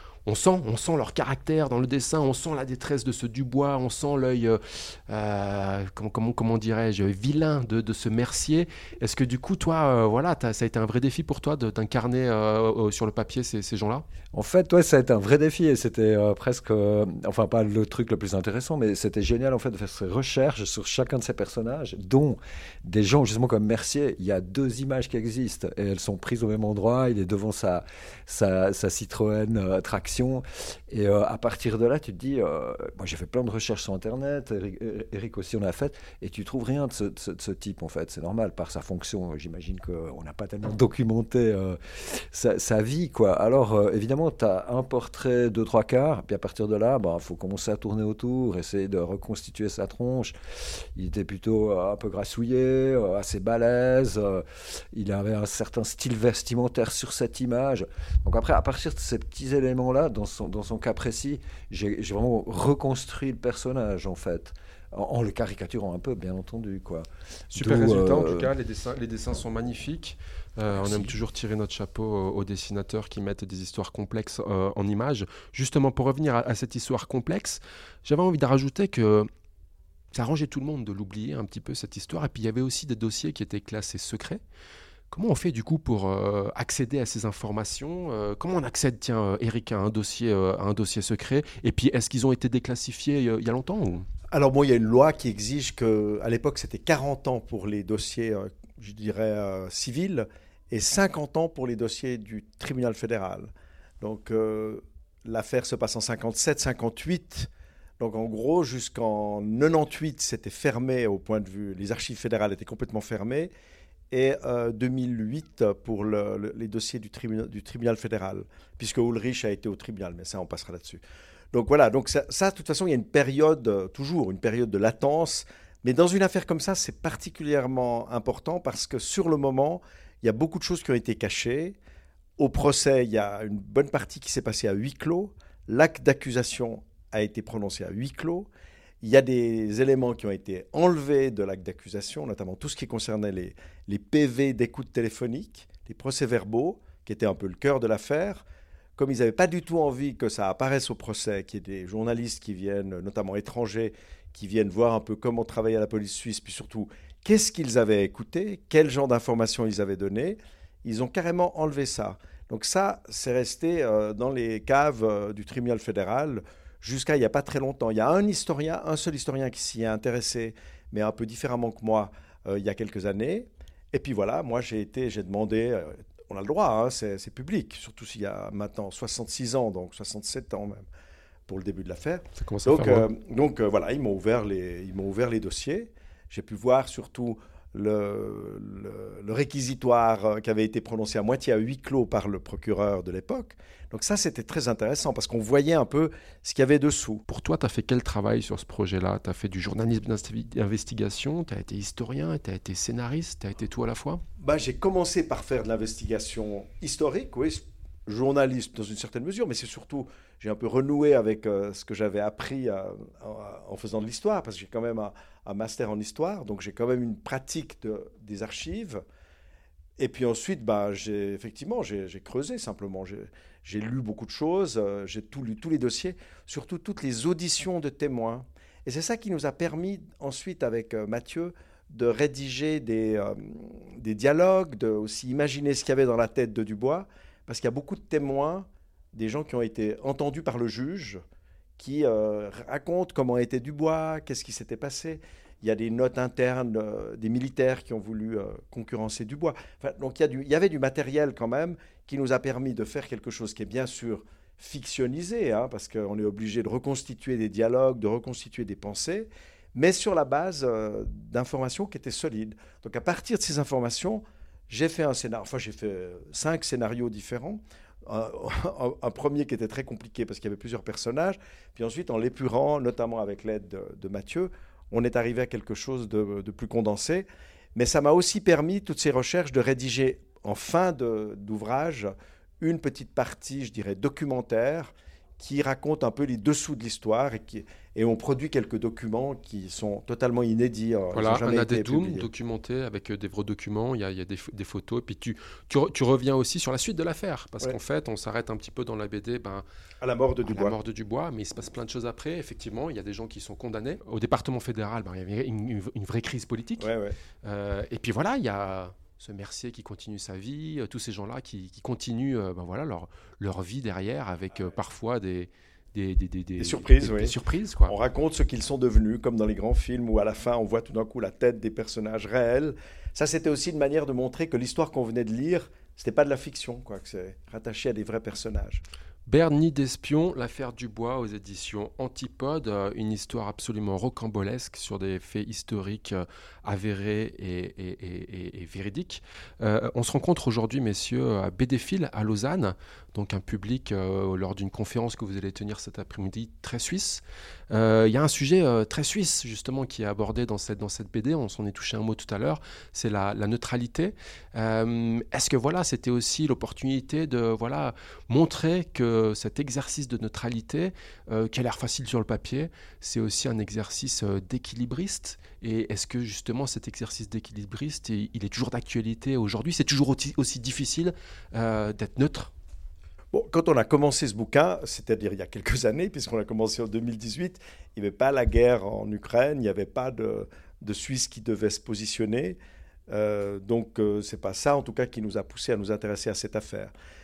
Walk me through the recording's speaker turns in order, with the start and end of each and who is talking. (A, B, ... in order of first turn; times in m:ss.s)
0:00.2-0:14.0 A
0:14.3-1:08.5 B
1:07.5-1:19.3 A
1:10.8-1:11.1 B
1:20.1-1:24.4 A
1:25.1-1:34.1 A
1:34.3-1:47.5 C
1:48.0-1:53.5 C
1:54.1-2:01.0 C
2:01.5-2:11.8 C
2:12.4-2:18.5 C
2:19.0-2:28.4 C
2:29.0-3:00.9 C
3:01.5-3:17.2 C
3:02.4-3:03.1 A
3:17.3-3:24.2 A
3:24.4-3:39.0 C
3:40.0-4:01.2 C
4:01.8-4:52.3 C
4:51.1-4:59.6 A
5:00.0-5:00.8 C
5:00.4-5:06.9 A
5:06.8-5:07.2 C
5:07.4-5:17.9 A
5:16.6-5:17.3 C
5:17.9-5:28.8 C
5:29.3-6:12.5 A
6:13.3-6:22.6 C
6:23.1-6:26.9 C